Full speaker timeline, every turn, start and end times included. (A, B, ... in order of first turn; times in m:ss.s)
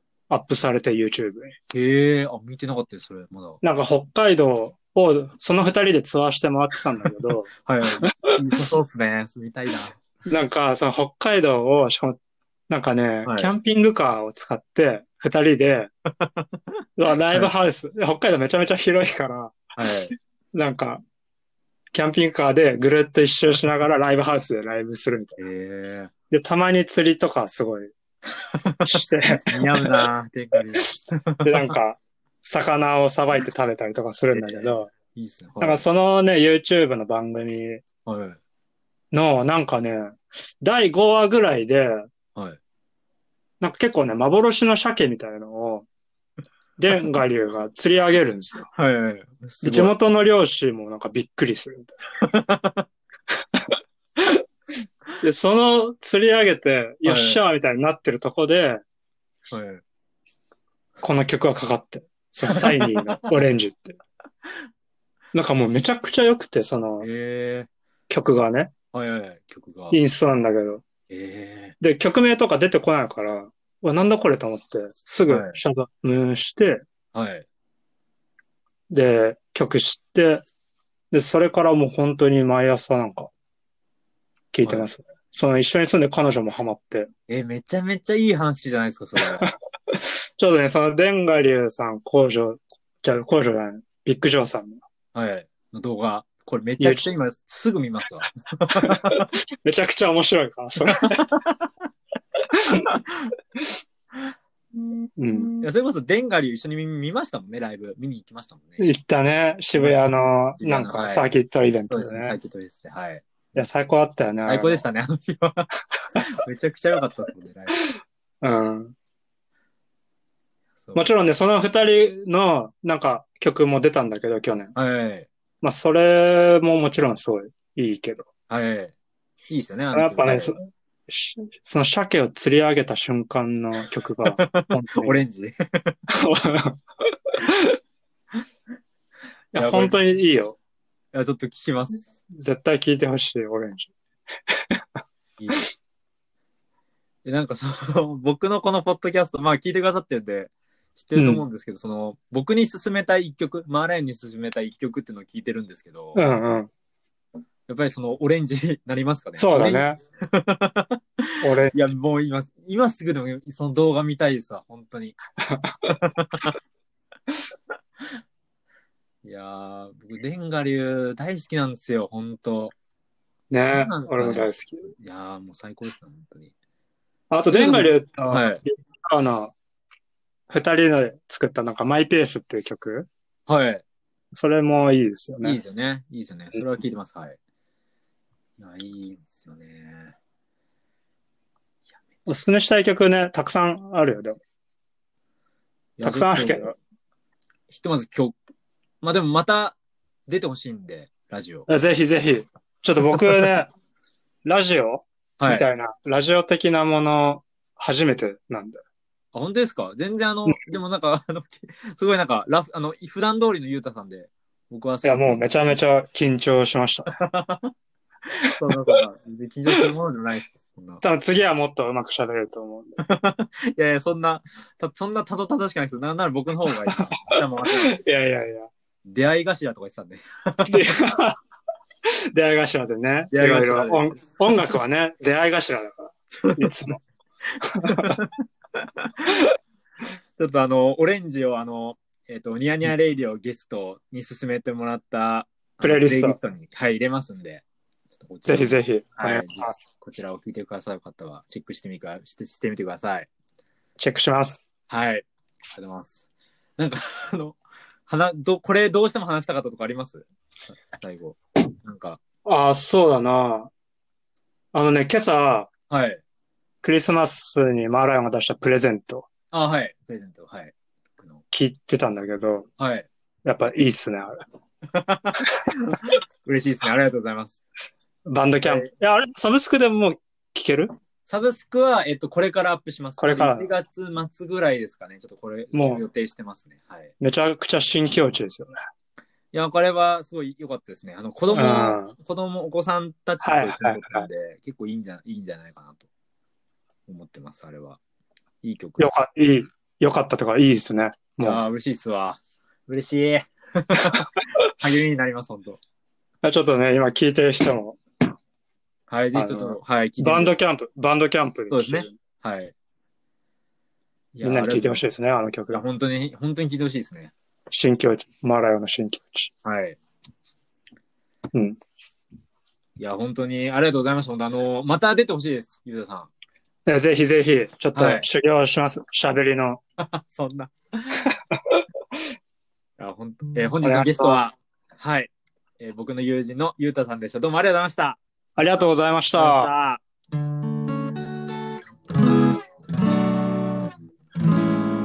0:00.3-0:01.6 A
0:01.7-0:03.6 B
0:03.6-0:07.5 A
0:07.6-0:10.0 B
0:10.3-0:12.2 A
0:12.7-0:15.9 A
0:13.2-0:13.5 B
0:17.0-0:19.7 A
0:19.8-0:20.1 B
0:20.5-0:21.0 A
0:21.9-0:25.4 A
0:25.4-0:26.1 B
0:26.3-0:27.9 A
0:28.5-0:31.7 B
0:28.8-0:29.9 A
0:31.4-0:34.9 A
0:34.3-0:35.8 B
0:35.6-0:37.8 A
0:38.0-0:38.4 B
0:39.1-0:42.1 A
0:43.6-0:45.9 A
0:46.8-0:48.7 A
0:48.7-0:49.9 B
0:49.6-0:51.9 A
0:52.2-0:52.9 B
0:53.5-0:54.4 A
0:55.2-0:58.8 A
0:57.0-0:57.4 B
0:59.5-0:59.8 B
1:01.0-1:04.0 A
1:02.4-1:03.2 B
1:05.3-1:07.1 A
1:07.0-1:07.7 B
1:08.1-1:08.7 A
1:08.9-1:10.0 B
1:09.9-1:10.8 A
1:11.1-1:11.8 B
1:11.8-1:16.8 A
1:15.3-1:15.6 B
1:17.1-1:17.4 B
1:18.9-1:20.4 A
1:21.1-1:23.3 A
1:24.5-1:27.1 A
1:24.6-1:24.9 B
1:27.3-1:29.4 B
1:29.2-1:34.8 A
1:35.1-1:39.3 B
1:36.8-1:37.1 A
1:38.8-1:41.2 A
1:40.8-1:41.6 B
1:42.5-1:43.0 A
1:42.7-1:43.3 B
1:45.2-1:45.5 A
1:45.6-1:48.9 B
1:48.8-1:52.4 A
1:49.8-1:50.1 B
1:50.6-1:51.3 B
1:51.9-1:53.2 B
1:53.5-1:54.8 A
1:54.4-1:57.8 B
1:58.4-1:58.9 A
2:00.8-2:01.1 B
2:00.9-2:04.7 A
2:04.7-2:05.3 B
2:05.6-2:08.3 A
2:08.5-2:08.9 B
2:09.5-2:10.6 B
2:09.9-2:15.2 A
2:14.2-2:16.0 B
2:16.1-2:17.7 A
2:19.5-2:20.6 A
2:19.5-2:20.0 B
2:21.1-2:22.1 B
2:22.3-2:23.9 A
2:24.5-2:24.8 A
2:25.4-2:25.7 B
2:27.2-2:36.2 B
2:31.1-2:31.4 A
2:36.2-2:36.7 A
2:37.7-2:45.2 B
2:39.4-2:40.0 A
2:41.4-2:41.8 A
2:45.4-2:45.9 A
2:45.8-2:46.6 B
2:49.2-2:52.7 B
2:53.5-2:54.8 A
2:53.7-2:56.5 B
2:57.3-2:59.5 A
2:57.5-2:58.6 B
3:00.5-3:03.1 A
3:03.5-3:03.8 B
3:04.3-3:05.6 A
3:05.4-3:07.4 B
3:08.6-3:10.2 B
3:12.3-3:14.4 A
3:16.0-3:16.8 B
3:16.0-3:16.7 A
3:17.7-3:18.3 B
3:19.0-3:21.7 B
3:21.7-3:23.7 A
3:24.4-3:28.8 A
3:25.4-3:25.7 B
3:29.3-3:35.8 B
3:30.5-3:30.8 A
3:35.0-3:37.1 A
3:37.1-3:37.7 B
3:38.3-3:41.0 B
3:41.0-3:43.0 A
3:43.0-3:48.0 B
3:46.9-3:48.7 A
3:49.0-3:50.9 B
3:50.7-3:51.4 A
3:52.0-3:57.0 A
3:53.3-3:54.2 B
3:56.4-3:56.7 B
3:57.5-3:59.4 B
3:57.6-3:58.2 A
4:00.4-4:07.6 B
4:05.8-4:06.4 A
4:08.2-4:13.3 B
4:08.4-4:09.8 A
4:14.0-4:14.6 A
4:14.9-4:16.3 B
4:16.8-4:22.2 B
4:22.4-4:23.7 A
4:24.7-4:25.7 A
4:25.9-4:26.2 B
4:26.8-4:29.3 A
4:29.5-4:31.4 B
4:31.5-4:32.7 A
4:32.8-4:33.1 B
4:33.4-4:34.4 A
4:34.9-4:37.6 B
4:38.2-4:40.9 A
4:41.2-4:47.1 B
4:43.2-4:43.7 A
4:45.7-4:46.0 A
4:47.2-4:48.7 A
4:49.5-4:56.1 B
4:51.5-4:52.1 A
4:53.4-4:54.3 A
4:57.1-4:58.0 B
4:58.6-4:59.1 B
4:59.0-5:01.6 A
5:01.4-5:05.8 B
5:03.9-5:04.2 A
5:06.4-5:08.0 A
5:09.1-5:10.5 B
5:09.3-5:12.1 A
5:11.7-5:12.7 B
5:14.3-5:15.0 B
5:14.4-5:15.8 A
5:15.7-5:17.3 B
5:17.7-5:19.5 A
5:19.6-5:20.0 B
5:21.5-5:21.8 A
5:23.0-5:26.3 B
5:26.8-5:29.8 A
5:27.9-5:28.2 B
5:30.0-5:31.2 B
5:31.5-5:31.8 A
5:33.0-5:38.2 B
5:33.8-5:34.4 A
5:38.6-5:39.7 A
5:39.3-5:40.0 B